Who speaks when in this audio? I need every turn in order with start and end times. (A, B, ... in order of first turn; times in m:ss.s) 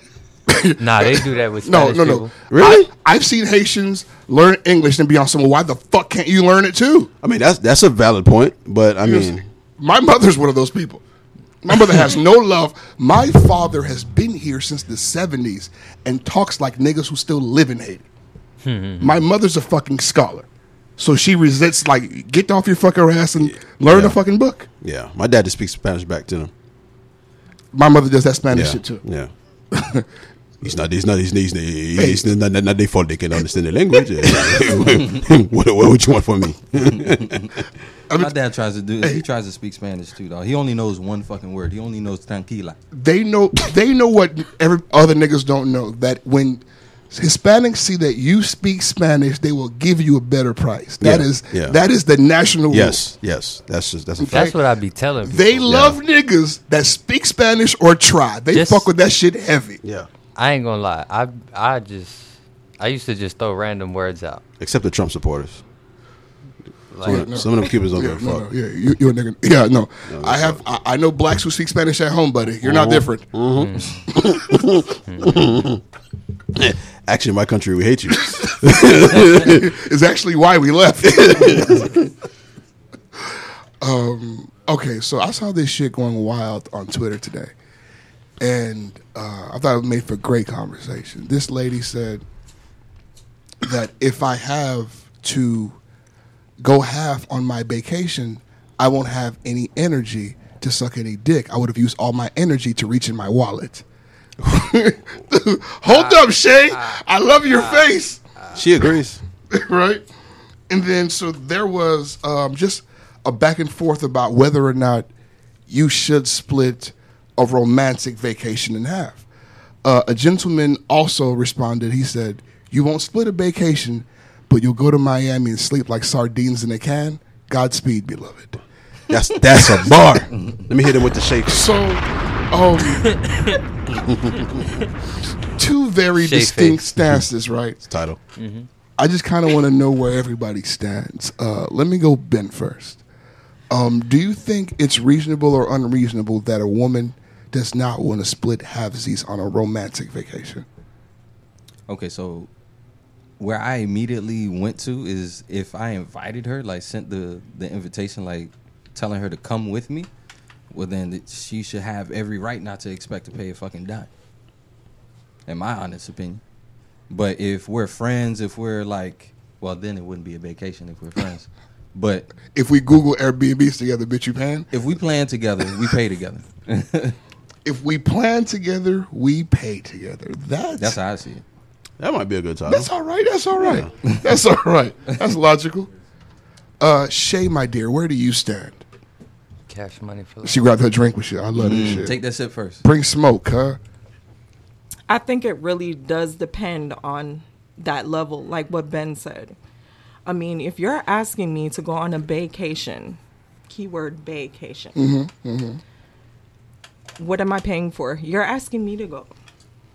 0:00.5-0:07.1 A
0:00.8-0:02.3 B
0:02.5-0:02.9 C
0:07.2-0:09.4 C
0:09.0-0:11.0 A
0:11.6-0:18.0 A
0:18.6-0:19.2 B
0:19.0-0:20.4 A
0:21.0-0:24.7 A
0:23.4-0:24.2 C
0:24.8-0:26.5 C
0:27.7-0:29.0 A
0:28.5-0:29.3 C
0:29.7-0:30.0 A
0:30.6-0:37.4 C
0:32.0-0:32.2 A
0:36.8-0:37.5 D
0:38.2-0:42.8 D
0:42.9-0:53.0 A
0:51.0-0:51.8 C
0:52.7-0:54.4 C
0:54.2-0:54.6 A
0:54.3-0:55.6 B
0:55.2-0:59.8 A
0:55.6-0:56.0 C
0:58.5-0:58.9 B
1:00.4-1:04.4 B
1:04.6-1:05.6 C
1:06.9-1:07.3 B
1:07.0-1:13.3 A
1:07.0-1:08.5 C
1:10.1-1:10.6 C
1:12.6-1:15.8 C
1:13.6-1:14.0 B
1:15.1-1:15.3 B
1:16.5-1:19.7 C
1:18.4-1:22.0 A
1:21.0-1:22.0 C
1:23.2-1:27.5 A
1:28.4-1:32.2 A
1:33.6-1:35.8 A
1:36.6-1:43.8 A
1:44.4-1:48.2 A
1:45.9-1:48.6 B
1:48.5-1:49.2 C
1:49.5-1:50.0 A
1:50.7-1:55.1 A
1:55.7-1:59.2 A
1:59.8-2:08.6 A
2:09.1-2:11.7 C
2:10.3-2:10.6 D
2:11.5-2:13.1 A
2:13.0-2:13.6 B
2:13.9-2:14.7 C
2:15.6-2:17.8 A
2:16.2-2:17.0 B
2:17.8-2:18.2 C
2:18.4-2:18.7 B
2:19.0-2:23.0 A
2:23.7-2:30.6 A
2:31.9-2:32.5 D
2:33.4-2:40.1 D
2:40.7-2:44.1 D
2:45.5-2:46.4 D
2:47.1-2:52.4 D
2:52.5-2:54.7 A
2:54.7-2:57.2 D
2:57.6-3:01.0 A
3:00.8-3:01.4 D
3:02.0-3:02.9 C
3:02.6-3:05.9 A
3:06.8-3:08.8 A
3:09.7-3:10.7 B
3:10.4-3:12.2 A
3:11.5-3:12.8 D
3:12.8-3:13.8 A
3:15.1-3:19.6 E
3:20.2-3:25.0 E
3:25.0-3:25.8 A
3:27.2-3:29.3 E